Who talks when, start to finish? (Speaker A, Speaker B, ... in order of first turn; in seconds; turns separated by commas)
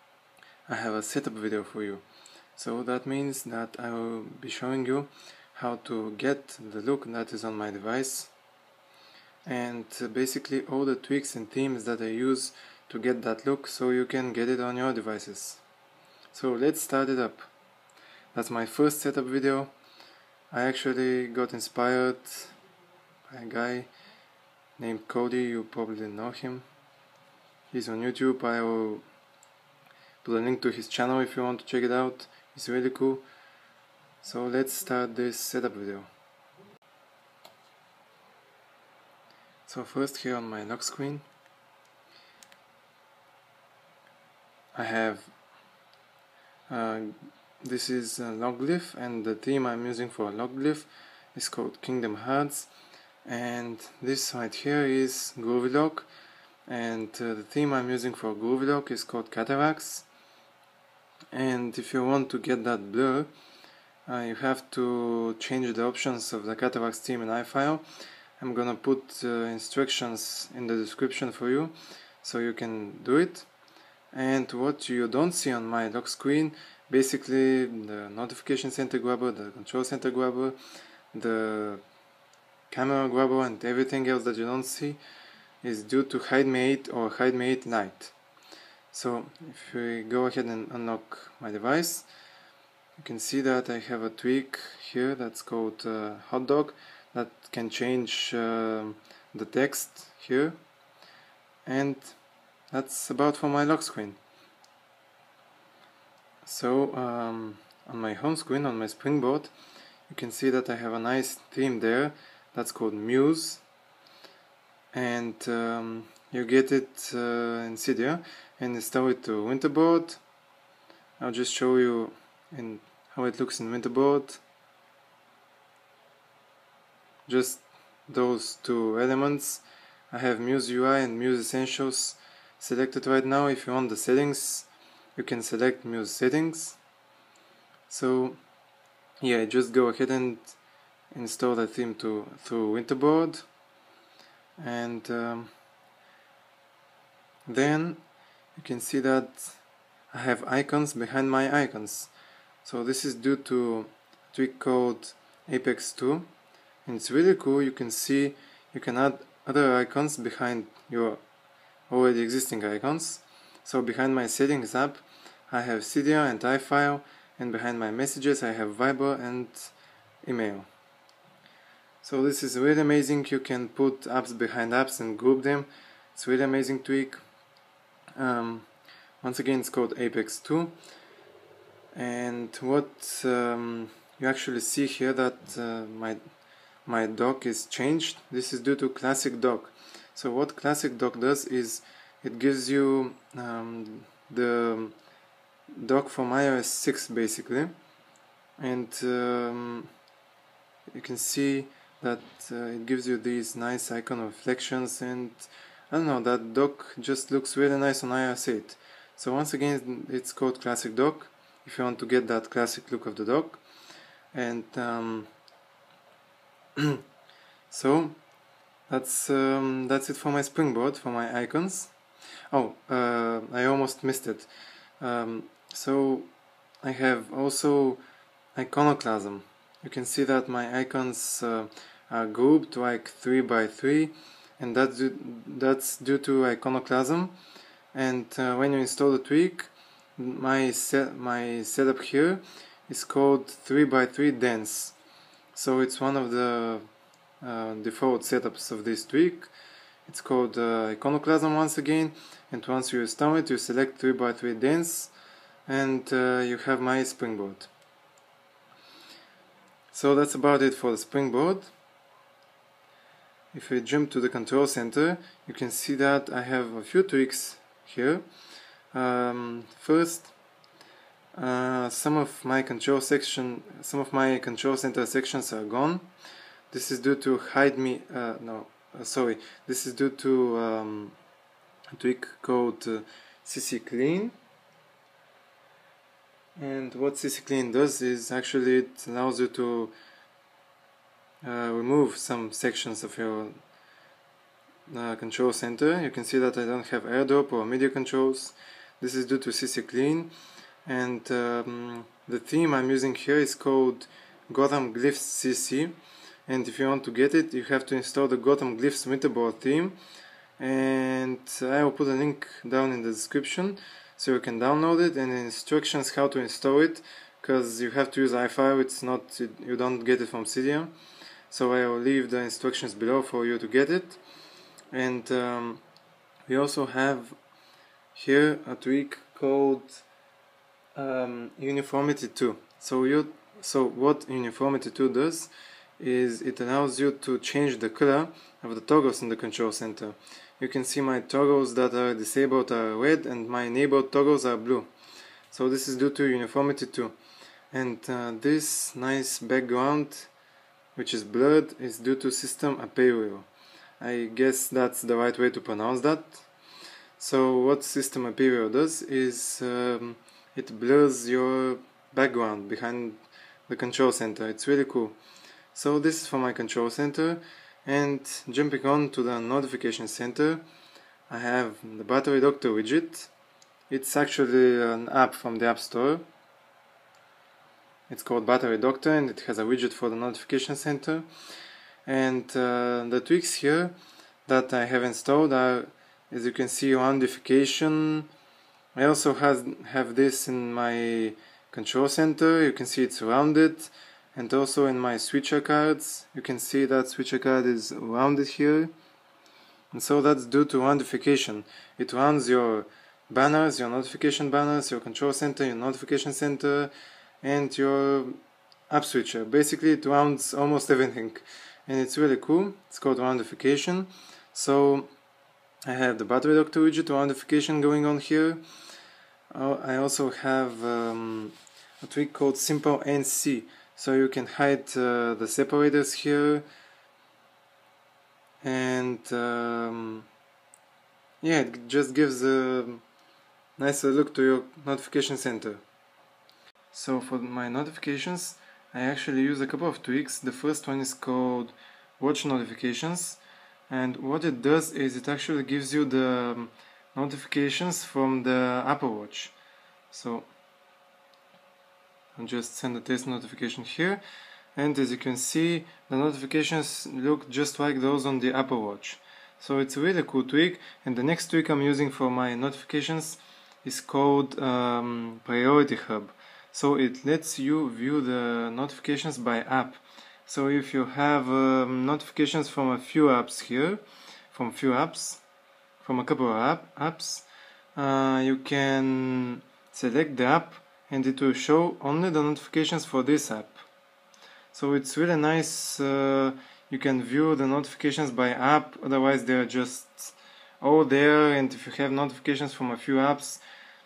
Speaker A: 0.7-2.0, Speaker A: 2.6-8.3, Speaker A: 9.5-15.6, Speaker A: 16.3-17.5, Speaker A: 18.3-19.7, Speaker A: 20.5-22.6, Speaker A: 23.3-23.9, Speaker A: 24.8-26.6, Speaker A: 27.7-29.0, Speaker A: 30.2-33.2, Speaker A: 34.2-36.1, Speaker A: 39.7-41.2, Speaker A: 44.8-45.3, Speaker A: 46.7-52.7, Speaker A: 53.2-56.1, Speaker A: 56.7-60.1, Speaker A: 61.3-63.3, Speaker A: 64.1-67.8, Speaker A: 68.4-73.5, Speaker A: 74.1-80.6, Speaker A: 81.1-81.8, Speaker A: 82.7-85.0, Speaker A: 85.6-88.1, Speaker A: 88.9-92.1, Speaker A: 93.0-100.6, Speaker A: 101.7-102.2, Speaker A: 102.7-104.2, Speaker A: 106.4-109.5, Speaker A: 110.1-113.6, Speaker A: 114.9-120.2, Speaker A: 121.2-124.4, Speaker A: 127.3-136.8, Speaker A: 137.9-138.4, Speaker A: 139.2-140.6, Speaker A: 141.1-143.4, Speaker A: 144.6-145.5, Speaker A: 147.5-148.0, Speaker A: 148.6-149.6, Speaker A: 150.1-152.1, Speaker A: 152.6-156.3, Speaker A: 156.8-161.2, Speaker A: 161.9-170.7, Speaker A: 172.0-177.2, Speaker A: 178.2-178.7, Speaker A: 179.2-180.8, Speaker A: 181.9-186.2, Speaker A: 186.9-194.9, Speaker A: 195.7-197.7, Speaker A: 198.6-199.9, Speaker A: 200.9-213.6, Speaker A: 214.3-215.3, Speaker A: 217.7-218.2, Speaker A: 218.9-221.9, Speaker A: 222.5-224.5, Speaker A: 225.0-226.3, Speaker A: 226.8-228.0, Speaker A: 228.6-237.3, Speaker A: 237.9-244.9, Speaker A: 245.5-246.8, Speaker A: 247.4-249.5, Speaker A: 250.1-255.1, Speaker A: 255.7-257.7, Speaker A: 259.9-261.7, Speaker A: 263.5-268.2, Speaker A: 268.9-270.3, Speaker A: 271.4-276.1, Speaker A: 276.7-281.1, Speaker A: 281.9-284.4, Speaker A: 286.6-289.9, Speaker A: 291.4-293.6, Speaker A: 294.9-300.3, Speaker A: 300.9-305.9, Speaker A: 306.5-310.0, Speaker A: 310.6-320.9, Speaker A: 321.5-324.2, Speaker A: 324.9-325.8, Speaker A: 326.5-327.3, Speaker A: 328.1-330.1, Speaker A: 330.9-344.9, Speaker A: 345.5-347.1, Speaker A: 347.7-350.3, Speaker A: 350.9-353.5, Speaker A: 354.0-356.5, Speaker A: 357.2-365.2, Speaker A: 365.7-370.6, Speaker A: 371.3-373.3, Speaker A: 373.9-376.2, Speaker A: 378.1-381.3, Speaker A: 382.1-383.9, Speaker A: 384.5-388.3, Speaker A: 388.9-398.9, Speaker A: 399.9-408.4, Speaker A: 408.9-415.1, Speaker A: 415.9-418.6, Speaker A: 419.5-426.6, Speaker A: 428.6-430.3, Speaker A: 431.4-433.0, Speaker A: 433.8-435.8, Speaker A: 436.9-449.6, Speaker A: 450.1-450.5, Speaker A: 452.4-454.2, Speaker A: 454.8-475.4, Speaker A: 476.0-483.9, Speaker A: 484.7-493.6